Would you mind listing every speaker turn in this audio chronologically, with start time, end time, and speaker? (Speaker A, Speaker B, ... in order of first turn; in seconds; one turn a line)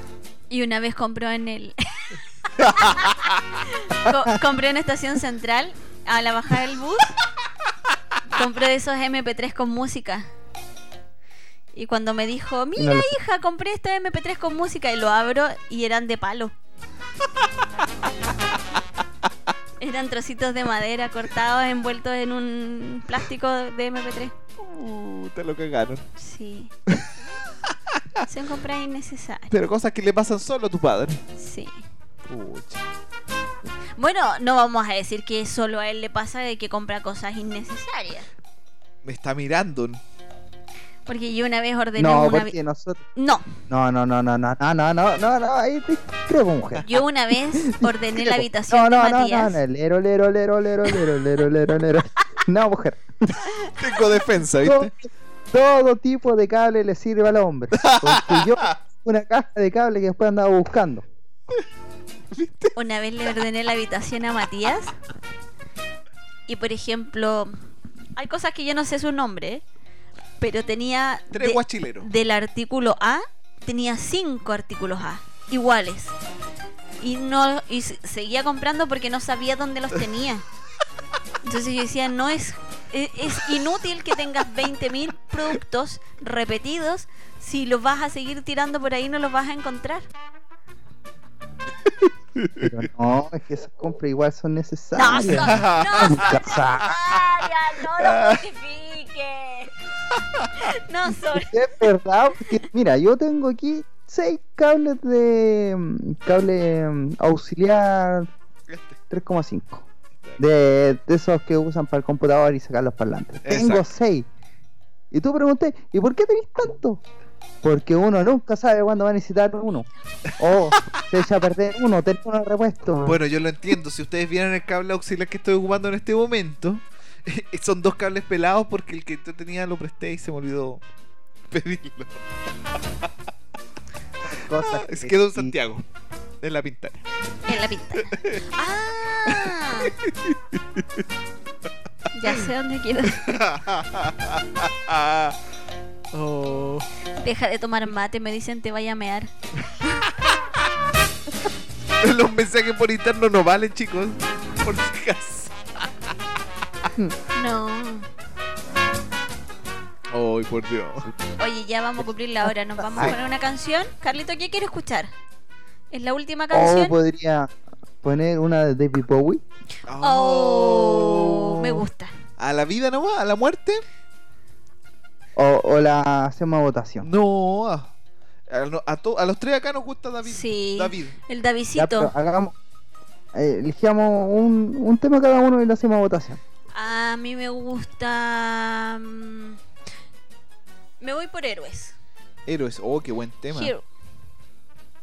Speaker A: 0.5-7.1
Speaker B: 2.6-3.4
Speaker A: 8.3-10.3
Speaker A: 11.7-16.5
Speaker C: 12.8-13.1
Speaker A: 19.8-24.3
Speaker B: 24.6-26.1
Speaker A: 26.2-26.7
Speaker A: 28.2-29.5
Speaker B: 29.5-31.2
Speaker A: 31.4-31.8
Speaker B: 32.3-32.8
Speaker A: 34.0-38.3
Speaker B: 39.0-40.0
Speaker A: 41.0-42.5
Speaker C: 42.0-43.0
Speaker A: 43.1-43.5
Speaker C: 43.7-46.8
Speaker A: 46.8-49.6
Speaker C: 47.6-53.3
Speaker B: 53.7-54.9
Speaker C: 54.6-61.0
Speaker B: 57.8-58.7
Speaker B: 62.3-62.7
Speaker A: 62.7-64.9
Speaker A: 66.5-67.5
Speaker A: 68.2-69.6
Speaker A: 70.4-76.1
Speaker B: 71.3-72.1
Speaker A: 77.0-80.4
Speaker A: 81.4-90.1
Speaker B: 92.3-92.7
Speaker C: 92.6-96.9
Speaker A: 94.9-99.7
Speaker B: 95.3-96.4
Speaker B: 98.0-98.4
Speaker A: 100.5-101.5
Speaker C: 101.3-108.3
Speaker B: 108.7-109.0
Speaker C: 109.1-109.9
Speaker C: 110.4-114.3
Speaker B: 113.4-113.8
Speaker C: 115.1-117.0
Speaker C: 117.6-119.9
Speaker B: 120.3-121.0
Speaker C: 120.4-123.2
Speaker B: 123.0-130.8
Speaker B: 131.5-132.2
Speaker C: 134.2-135.5
Speaker B: 134.5-135.8
Speaker B: 136.4-137.0
Speaker A: 137.5-139.9
Speaker B: 138.1-138.4
Speaker B: 139.3-141.0
Speaker A: 142.1-143.3
Speaker B: 143.1-145.4
Speaker B: 146.1-146.8
Speaker A: 147.2-149.3
Speaker B: 152.0-155.9
Speaker A: 157.3-158.1
Speaker B: 160.1-161.1
Speaker A: 161.4-165.1
Speaker C: 162.4-163.2
Speaker A: 165.9-166.9
Speaker C: 166.5-169.4
Speaker B: 169.9-171.8
Speaker A: 170.0-172.1
Speaker B: 172.4-173.8
Speaker C: 175.3-177.1
Speaker B: 177.0-177.9
Speaker B: 178.5-181.2
Speaker A: 180.2-182.1
Speaker C: 181.8-182.5
Speaker C: 183.3-186.4
Speaker A: 186.7-189.6
Speaker A: 191.0-191.9
Speaker B: 192.4-193.7
Speaker A: 193.5-193.8